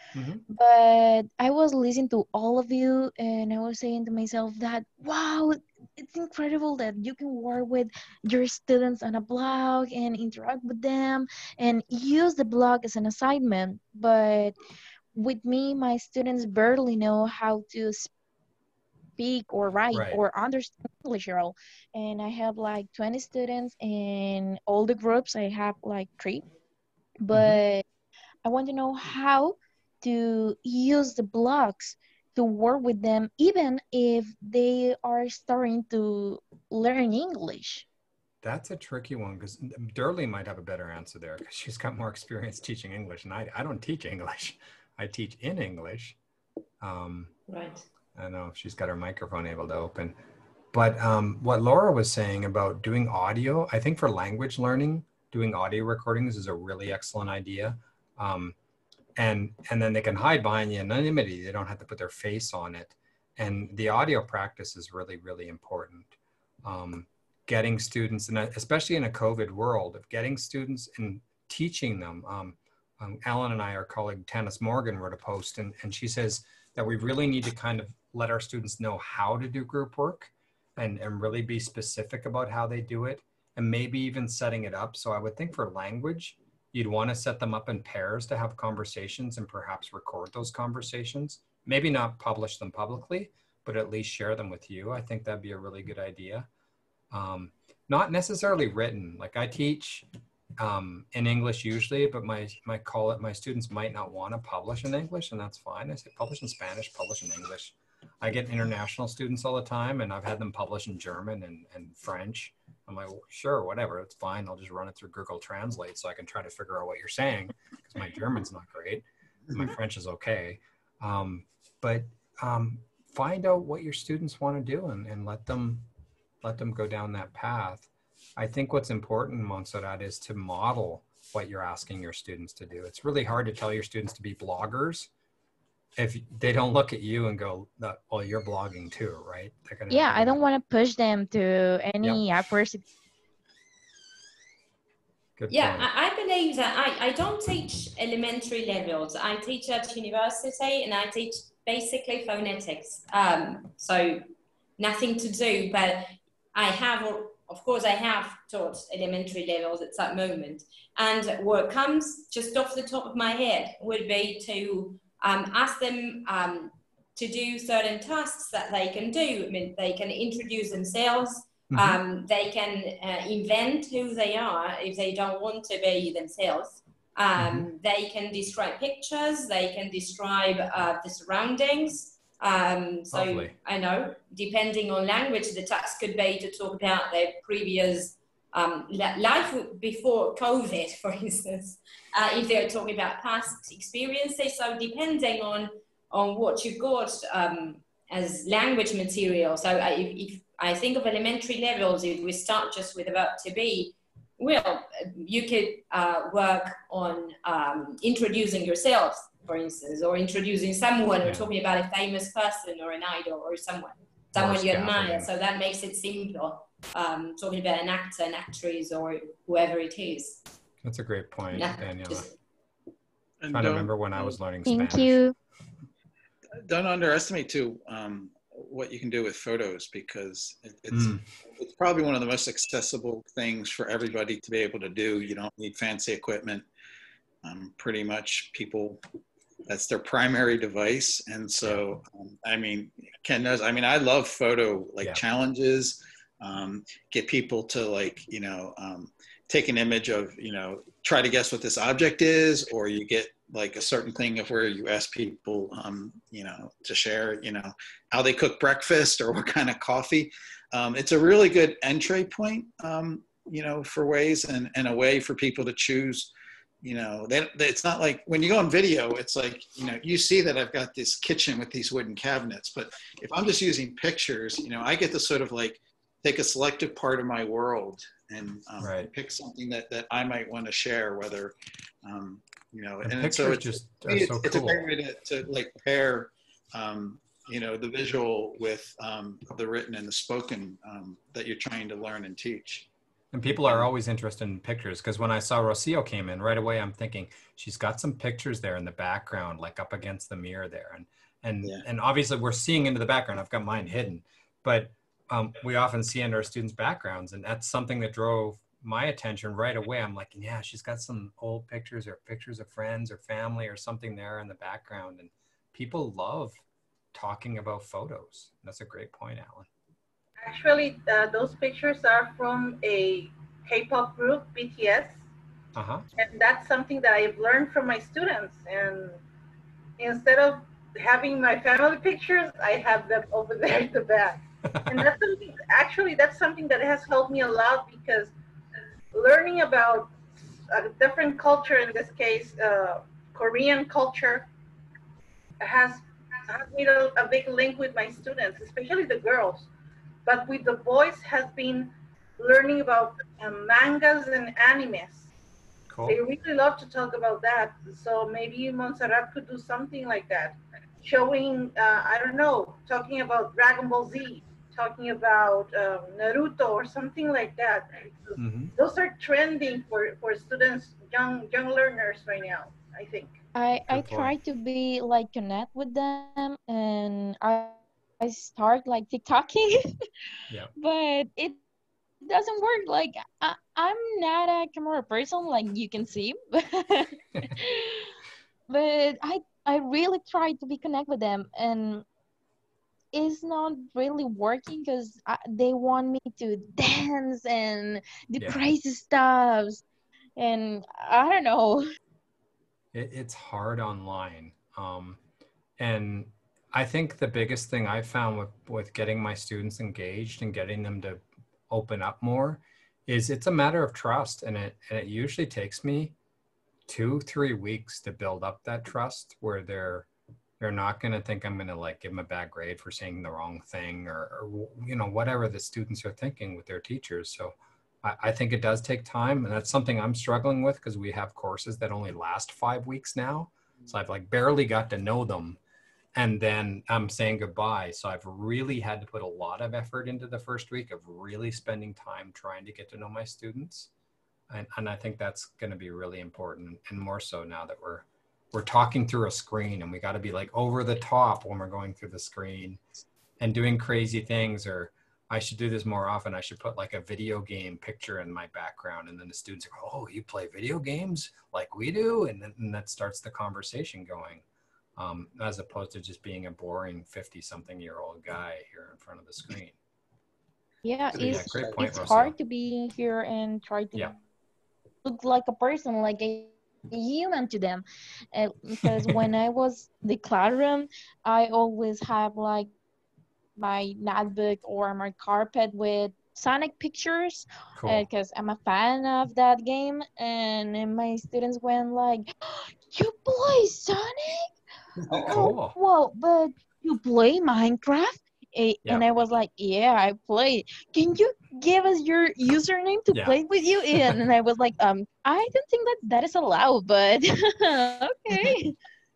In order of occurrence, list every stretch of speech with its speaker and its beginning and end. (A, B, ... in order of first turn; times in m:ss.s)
0:00.1-0:00.4 A
0:00.5-0:14.6 B
0:15.1-0:18.1 B
0:19.2-0:26.4 B
0:19.9-0:20.2 A
0:27.2-0:27.8 B
0:27.3-0:27.6 A
0:28.4-0:37.8 B
0:38.4-0:46.2 A
0:46.8-0:47.3 A
0:47.5-0:47.8 C
0:48.1-0:50.2 A
0:50.7-0:58.6 A
0:59.2-1:06.1 A
1:06.6-1:36.5 A
1:37.1-1:40.1 A
1:40.6-2:05.8 A
2:06.4-2:15.1 A
2:16.0-2:20.4 A
2:19.9-2:22.8 B
2:25.4-2:25.9 A
2:25.5-2:34.2 C
2:34.8-3:40.4 C
2:51.7-2:52.0 A
2:57.4-2:57.7 A
3:03.1-3:03.5 A
3:34.3-3:35.3 A
3:40.8-3:42.3 A
3:41.5-3:42.3 C
3:43.4-3:44.4 D
3:43.5-3:45.2 A
3:44.6-3:45.3 B
3:46.6-3:56.6 D
3:50.9-3:51.2 A
3:57.4-3:59.0 D
3:59.7-4:26.3 D
4:26.8-4:52.9 D
4:38.8-4:39.1 A
4:43.0-4:44.8 A
4:53.3-5:19.7 A
4:53.5-4:53.9 D
5:20.4-5:25.2 E
5:25.7-5:26.0 A
5:26.2-5:29.2 E
5:30.0-5:38.3 E
5:34.7-5:35.0 A
5:39.1-5:40.1 E
5:40.7-5:44.5 E
5:45.6-5:49.7 E
5:50.2-5:55.3 E
5:55.9-5:56.2 A
5:56.0-6:13.4 E
6:08.4-6:08.7 A
6:13.5-6:20.0 B
6:13.9-6:14.3 A
6:20.8-6:21.6 B
6:22.2-6:28.1 B
6:28.7-6:32.0 B
6:33.1-6:39.8 B
6:38.4-6:38.7 A
6:40.4-6:41.8 B
6:42.9-6:45.2 A
6:45.8-6:56.1 A
6:56.9-7:00.1 A
7:00.6-7:15.6 A
7:16.1-7:23.9 A
7:24.5-7:32.8 A
7:33.4-7:44.4 A
7:45.0-7:49.8 A
7:50.8-7:54.1 B
7:51.1-7:52.1 D
7:51.2-7:52.3 A
7:55.0-8:02.7 B
7:58.8-7:59.2 A
8:03.6-8:14.5 B
8:07.8-8:08.0 A
8:15.1-8:28.8 B
8:15.2-8:15.8 A
8:23.1-8:23.4 A
8:23.9-8:24.2 A